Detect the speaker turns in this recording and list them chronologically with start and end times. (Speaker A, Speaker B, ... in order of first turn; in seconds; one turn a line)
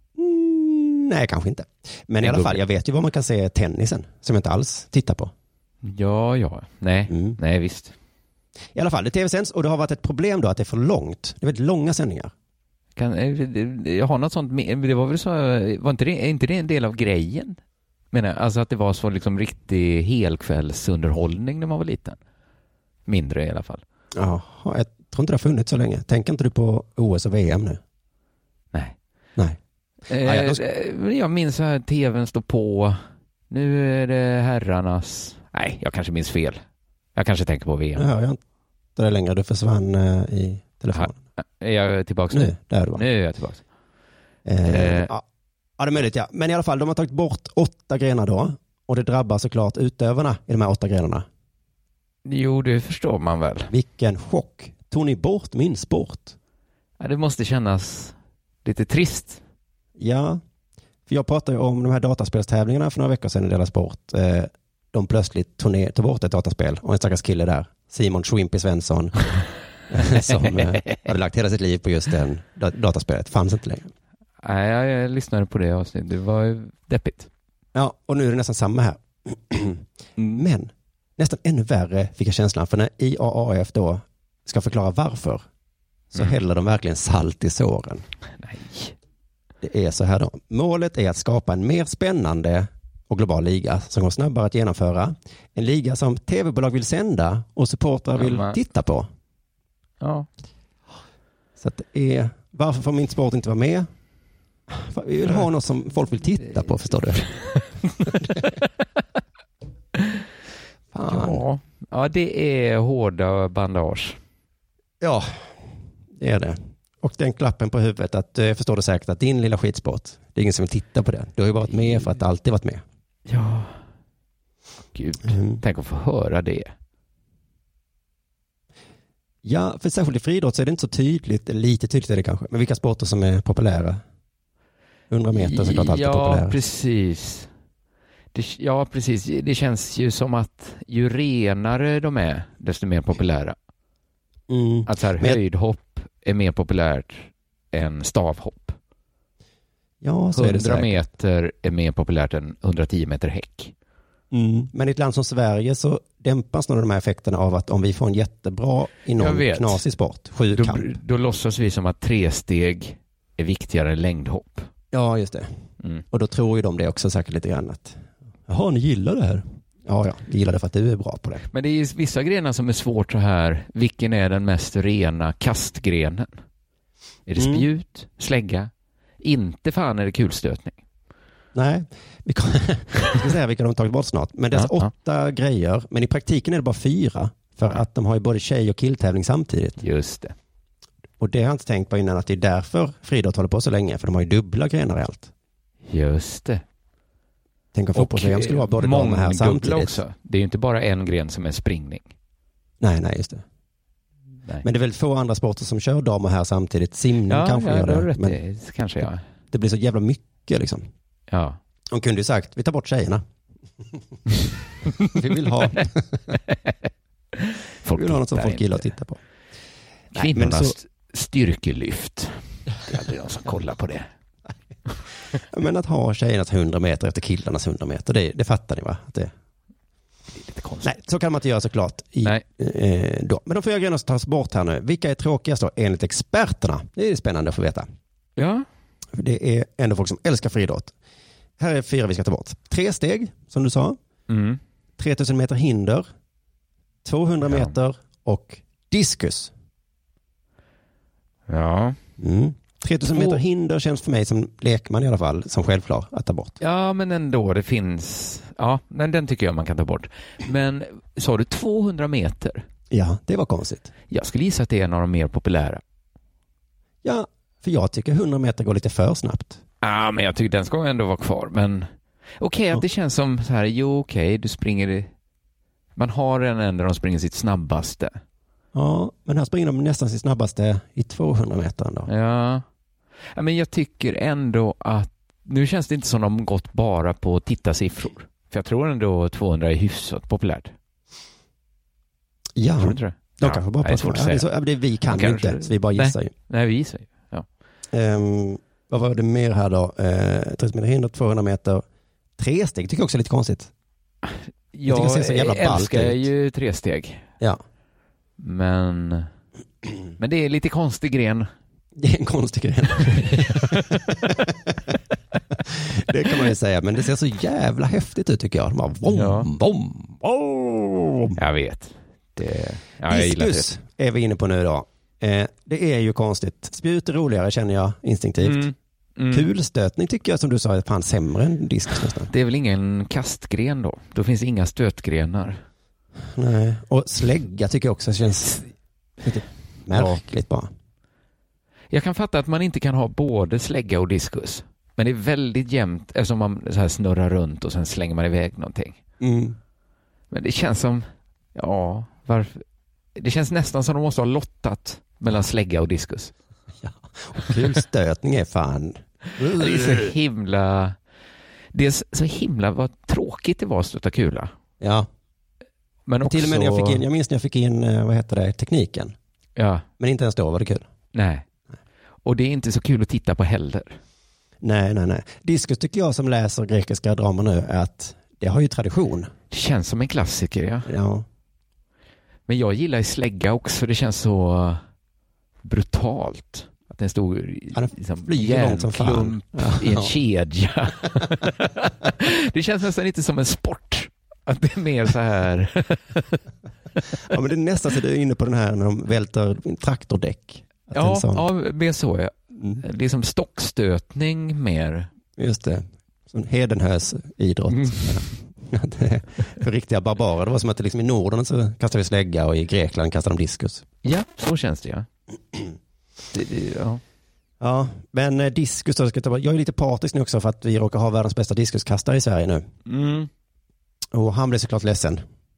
Speaker A: 0.2-5.3
Speaker B: 2.2-2.6
Speaker B: 5.8-8.0
Speaker A: 7.1-7.4
Speaker A: 8.7-12.3
Speaker B: 13.0-17.6
Speaker B: 18.1-22.2
Speaker B: 23.1-23.8
Speaker A: 24.1-27.8
Speaker B: 30.1-33.0
Speaker A: 30.2-30.6
Speaker B: 33.5-36.6
Speaker B: 37.1-38.1
Speaker A: 38.0-38.4
Speaker A: 39.0-41.2
Speaker B: 40.9-43.6
Speaker A: 42.3-43.0
Speaker A: 44.5-45.2
Speaker B: 44.6-45.1
Speaker A: 45.8-51.3
Speaker B: 52.2-53.7
Speaker A: 53.7-56.4
Speaker B: 57.0-59.4
Speaker A: 60.0-60.4
Speaker A: 61.1-69.2
Speaker A: 69.9-73.9
Speaker B: 70.0-71.0
Speaker B: 74.4-77.3
Speaker A: 77.7-85.4
Speaker A: 86.1-88.0
Speaker B: 88.4-89.0
Speaker A: 89.6-99.1
Speaker B: 98.2-98.6
Speaker B: 100.0-100.3
Speaker A: 101.6-103.9
Speaker A: 104.7-107.3
Speaker B: 107.4-108.5
Speaker A: 108.1-108.5
Speaker B: 110.0-110.2
Speaker A: 110.9-111.4
Speaker B: 111.0-114.2
Speaker A: 115.0-115.6
Speaker A: 116.1-122.8
Speaker B: 123.3-123.8
Speaker B: 124.9-126.7
Speaker A: 125.3-125.6
Speaker A: 129.4-134.0
Speaker A: 135.1-136.6
Speaker B: 135.3-137.5
Speaker B: 138.3-143.6
Speaker A: 144.5-145.4
Speaker B: 144.9-148.8
Speaker A: 150.0-151.0
Speaker B: 150.3-153.7
Speaker A: 154.3-160.9
Speaker B: 159.2-159.8
Speaker B: 160.5-164.7
Speaker A: 164.9-165.5
Speaker A: 166.1-171.4
Speaker B: 171.5-176.4
Speaker B: 177.3-178.7
Speaker A: 177.4-177.7
Speaker B: 179.2-180.8
Speaker A: 181.5-189.8
Speaker B: 184.5-184.9
Speaker B: 189.8-190.3
Speaker A: 191.2-195.3
Speaker B: 195.9-196.6
Speaker A: 197.7-200.0
Speaker B: 197.9-202.1
Speaker A: 202.8-203.4
Speaker A: 204.6-208.4
Speaker B: 207.3-209.2
Speaker A: 209.5-210.9
Speaker B: 211.3-211.6
Speaker A: 211.9-213.2
Speaker A: 215.0-216.2
Speaker B: 216.3-216.8
Speaker B: 217.3-218.8
Speaker A: 217.9-219.2
Speaker B: 220.1-224.1
Speaker A: 220.2-220.8
Speaker A: 225.3-229.3
Speaker B: 230.3-230.9
Speaker A: 230.8-237.9
Speaker B: 238.4-238.7
Speaker A: 239.1-240.9
Speaker A: 241.6-244.0
Speaker B: 244.3-244.6
Speaker A: 245.0-246.1
Speaker A: 247.0-249.5
Speaker B: 247.5-247.7
Speaker B: 251.5-252.0
Speaker A: 252.2-256.6
Speaker B: 253.1-253.4
Speaker B: 256.6-262.7
Speaker A: 262.9-263.9
Speaker B: 264.1-265.8
Speaker A: 267.0-269.6
Speaker B: 269.8-271.9
Speaker B: 272.4-275.1
Speaker B: 276.0-278.2
Speaker A: 278.7-282.1
Speaker B: 282.1-282.6
Speaker B: 283.4-290.7
Speaker A: 292.6-296.3
Speaker B: 292.8-294.5
Speaker B: 295.1-297.5
Speaker A: 297.9-301.8
Speaker A: 302.4-303.7
Speaker B: 304.2-307.2
Speaker A: 304.9-306.3
Speaker B: 308.4-309.3
Speaker B: 310.2-311.5
Speaker A: 312.0-315.0
Speaker B: 313.1-314.0
Speaker A: 315.6-321.4
Speaker B: 319.1-319.5
Speaker B: 321.4-323.7
Speaker A: 323.1-328.7
Speaker B: 328.4-329.5
Speaker A: 329.3-332.3
Speaker B: 332.3-335.6
Speaker A: 336.3-338.7
Speaker A: 339.2-340.7
Speaker B: 339.9-340.2
Speaker B: 341.9-349.0
Speaker A: 349.2-349.6
Speaker B: 350.3-352.6
Speaker B: 353.1-356.3
Speaker A: 356.8-360.1
Speaker B: 359.4-361.0
Speaker B: 361.7-364.5
Speaker A: 364.8-365.1
Speaker B: 366.1-367.0
Speaker A: 366.2-369.1
Speaker B: 369.6-369.9
Speaker A: 370.0-370.9
Speaker B: 371.1-371.5
Speaker B: 372.2-374.0
Speaker A: 374.6-379.3
Speaker B: 379.5-380.9
Speaker A: 380.9-381.3
Speaker B: 382.5-384.8
Speaker B: 385.6-396.4
Speaker A: 387.7-390.1
Speaker A: 397.2-401.4
Speaker B: 400.9-405.1
Speaker A: 405.4-413.9
Speaker B: 407.7-408.1
Speaker B: 414.0-415.1
Speaker B: 416.3-417.0
Speaker A: 417.6-422.6
Speaker B: 422.9-423.3
Speaker A: 424.1-425.2